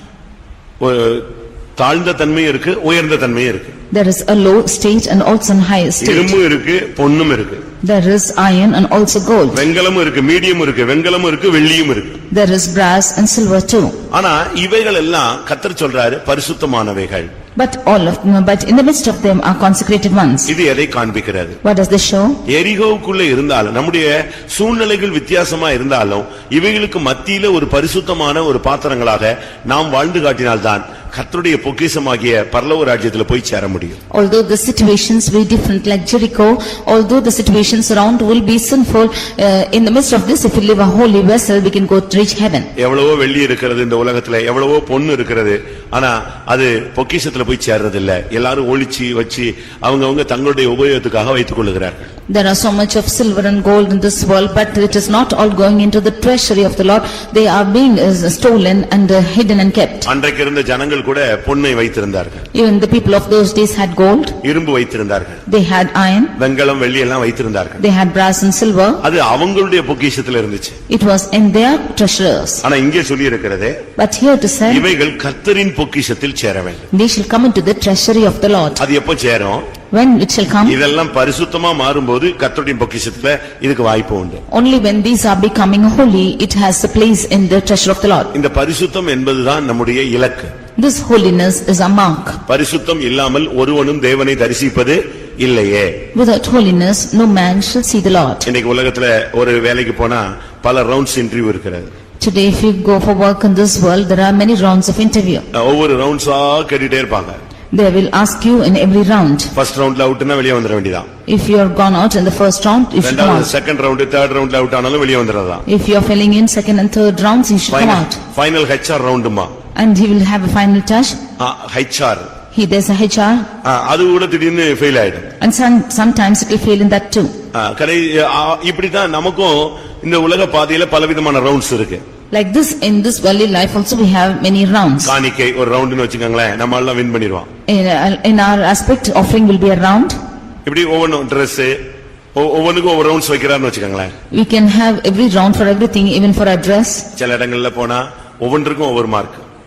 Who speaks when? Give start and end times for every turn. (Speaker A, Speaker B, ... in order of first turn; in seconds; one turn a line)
Speaker A: 0.8-3.8
Speaker B: 3.9-6.3
Speaker A: 6.0-7.6
Speaker B: 7.8-9.6
Speaker A: 9.5-12.2
Speaker B: 12.3-14.0
Speaker A: 14.1-17.3
Speaker B: 17.6-20.5
Speaker A: 20.5-21.6
Speaker B: 21.6-22.4
Speaker A: 22.5-34.0
Speaker B: 34.1-42.7
Speaker A: 42.8-52.1
Speaker B: 52.3-60.1
Speaker A: 60.1-62.4
Speaker B: 62.5-64.4
Speaker A: 64.4-65.4
Speaker B: 65.5-66.3
Speaker A: 66.4-67.8
Speaker B: 67.8-69.0
Speaker A: 69.0-70.8
Speaker B: 70.9-72.6
Speaker A: 72.6-73.8
Speaker B: 74.0-74.9
Speaker A: 74.7-76.9
Speaker B: 76.9-78.8
Speaker A: 78.8-79.7
Speaker B: 79.9-80.8
Speaker A: 80.7-84.4
Speaker B: 84.5-88.3
Speaker A: 88.3-90.5
Speaker B: 90.8-92.4
Speaker A: 92.5-96.0
Speaker B: 96.1-98.5
Speaker A: 98.5-101.9
Speaker B: 102.2-105.5
Speaker A: 105.5-107.4
Speaker B: 107.7-109.5
Speaker A: 109.5-111.1
Speaker B: 111.3-113.5
Speaker A: 113.0-115.6
Speaker B: 115.7-118.2
Speaker A: 117.7-119.5
Speaker B: 119.8-121.2
Speaker A: 121.4-122.3
Speaker B: 122.5-123.5
Speaker A: 123.6-125.3
Speaker B: 125.4-127.3
Speaker A: 127.5-132.0
Speaker B: 132.3-135.1
Speaker A: 135.0-137.5
Speaker B: 137.7-140.2
Speaker A: 140.7-141.8
Speaker A: 142.3-144.1
Speaker B: 144.3-147.1
Speaker A: 147.2-149.4